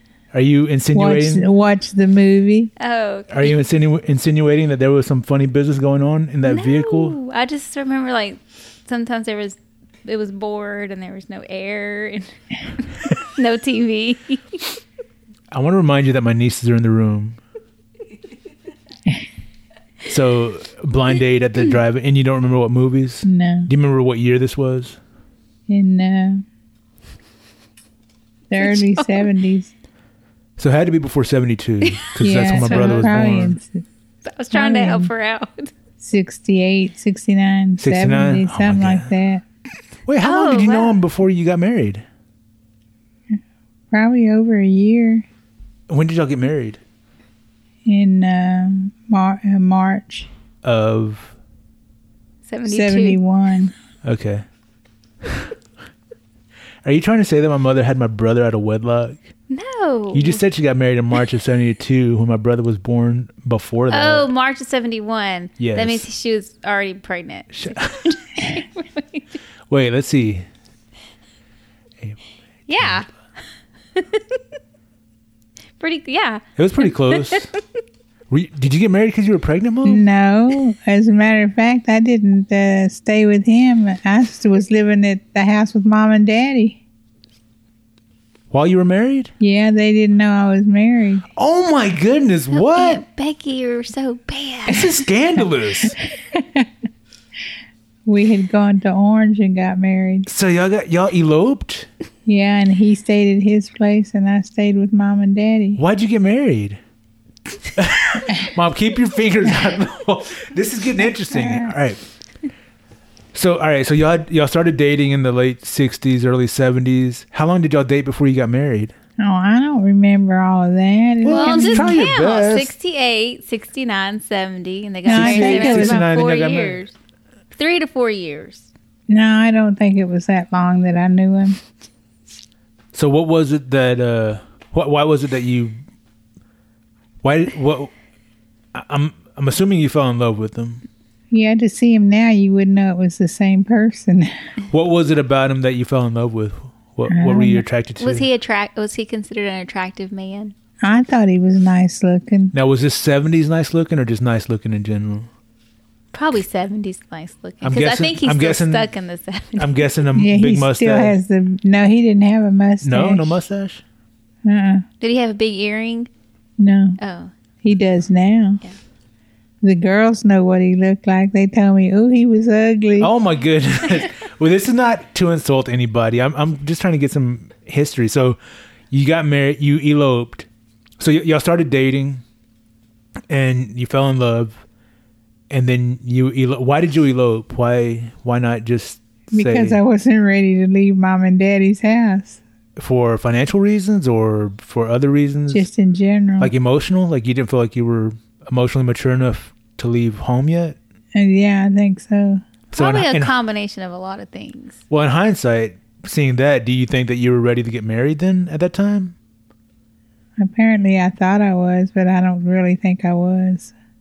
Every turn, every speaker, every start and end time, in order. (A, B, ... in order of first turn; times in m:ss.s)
0:00.3-0:01.4 A
0:00.9-0:02.7 B
0:02.8-0:03.5 C
0:03.3-0:07.2 A
0:06.4-0:14.6 C
0:15.5-0:17.4 A
0:20.1-0:25.0 A
0:23.2-0:23.7 B
0:25.7-0:26.4 B
0:28.5-0:29.7 B
0:28.6-0:29.3 C
0:30.6-0:33.6 A
0:32.2-0:33.8 B
0:32.6-0:33.0 C
0:34.2-0:35.7 C
0:34.5-0:35.1 B
0:36.0-0:39.4 B
0:37.8-0:39.1 A
0:40.1-0:42.0 A
0:40.2-0:41.0 C
0:43.9-0:45.3 B
0:45.9-0:46.8 A
0:47.8-0:50.3 B
0:50.6-0:51.3 A
0:52.5-0:53.2 C
0:52.7-0:53.7 B
0:54.0-0:54.4 A
0:56.8-0:59.2 A
0:59.5-1:00.4 C
1:00.1-1:04.3 A
1:03.9-1:09.4 C
1:05.6-1:06.1 A
1:07.5-1:08.0 A
1:09.7-1:10.4 A
1:12.7-1:13.1 C
1:12.8-1:13.1 A
1:14.0-1:14.2 C
1:15.8-1:17.6 C
1:16.6-1:17.5 A
1:18.3-1:20.0 A
1:19.8-1:26.8 B
1:28.5-1:29.3 A
1:29.4-1:31.3 B
1:31.4-1:33.0 A
1:32.5-1:34.9 C
1:34.7-1:36.0 A
1:36.3-1:36.7 B
1:38.1-1:40.3 B
1:40.3-1:41.9 A
1:42.2-1:45.8 B
1:45.8-1:46.8 A
1:47.8-1:52.0 A
1:51.3-1:51.8 B
1:53.3-1:58.9 A
1:59.2-2:02.0 B
2:01.2-2:02.7 A
2:01.3-2:07.0 C
2:05.1-2:06.0 B
2:05.1-2:06.8 A
2:07.6-2:08.7 C
2:09.1-2:11.6 B
2:12.9-2:15.8 A
2:17.2-2:17.9 A
2:18.7-2:20.8 A
2:21.3-2:24.3 B
2:24.7-2:28.3 A
2:27.1-2:27.6 B
2:28.0-2:30.6 C
2:30.8-2:32.6 B
2:32.5-2:35.3 A
2:36.1-2:39.9 C
2:37.6-2:38.9 A
2:39.6-2:41.2 A
2:40.2-2:43.4 B
2:42.8-2:43.8 A
2:44.4-2:44.8 B
2:45.0-2:46.1 C
2:46.6-2:47.0 B
2:47.0-2:47.3 C
2:47.6-2:48.6 B
2:49.6-2:53.1 B
2:53.0-2:58.4 A
2:58.9-3:00.5 A
3:01.0-3:02.2 A
3:03.3-3:04.6 A
3:05.5-3:09.8 A
3:09.3-3:12.4 B
3:12.8-3:15.7 A
3:15.5-3:16.5 B
3:16.4-3:20.8 A
3:21.1-3:22.4 B
3:22.7-3:23.3 A
3:22.8-3:24.8 C
3:24.9-3:29.2 A
3:30.4-3:33.7 B